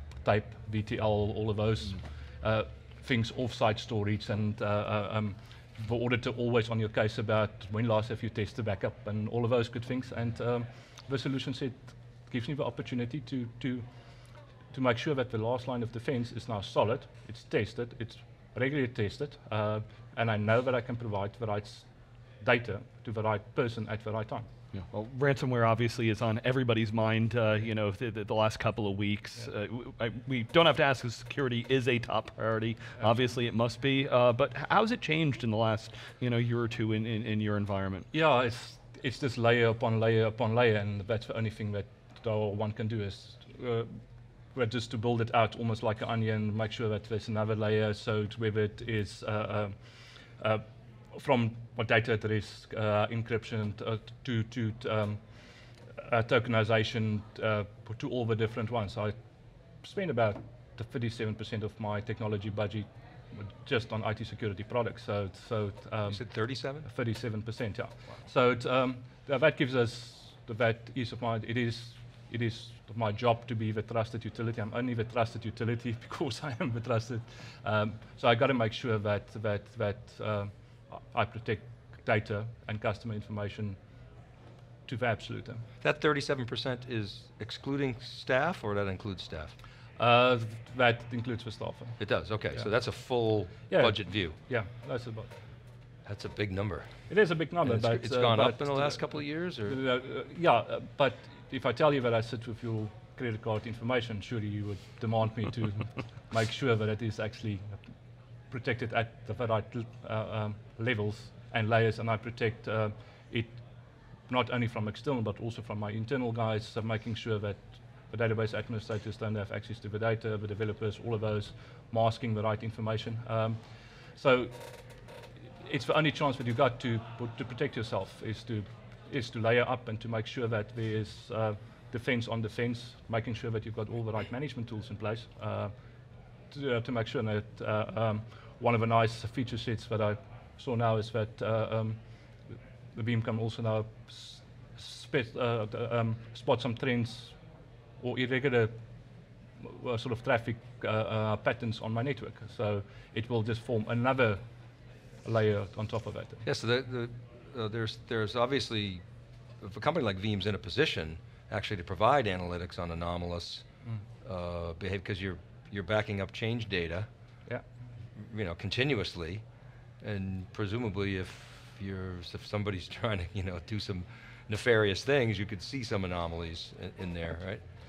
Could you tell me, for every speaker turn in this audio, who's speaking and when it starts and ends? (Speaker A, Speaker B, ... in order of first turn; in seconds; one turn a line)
Speaker A: 0.2-13.9
Speaker A: 14.7-21.9
Speaker A: 22.4-24.5
Speaker B: 24.7-38.1
Speaker A: 38.1-43.9
Speaker A: 44.5-49.8
Speaker A: 50.4-55.2
Speaker A: 56.0-59.1
Speaker A: 59.8-83.8
Speaker C: 66.1-66.9
Speaker A: 84.9-85.6
Speaker C: 85.8-89.5
Speaker A: 90.0-92.0
Speaker C: 92.0-94.4
Speaker A: 93.5-95.4
Speaker C: 96.1-96.9
Speaker A: 97.1-107.8
Speaker C: 97.6-99.8
Speaker A: 108.5-113.6
Speaker A: 114.3-123.6
Speaker A: 124.2-124.7
Speaker A: 125.6-135.7
Speaker A: 136.5-142.0
Speaker A: 142.9-147.4
Speaker A: 148.0-148.8
Speaker A: 149.6-154.4
Speaker A: 155.2-156.4
Speaker C: 156.4-159.0
Speaker C: 159.6-163.7
Speaker C: 164.2-167.1
Speaker C: 168.2-169.4
Speaker C: 170.0-177.6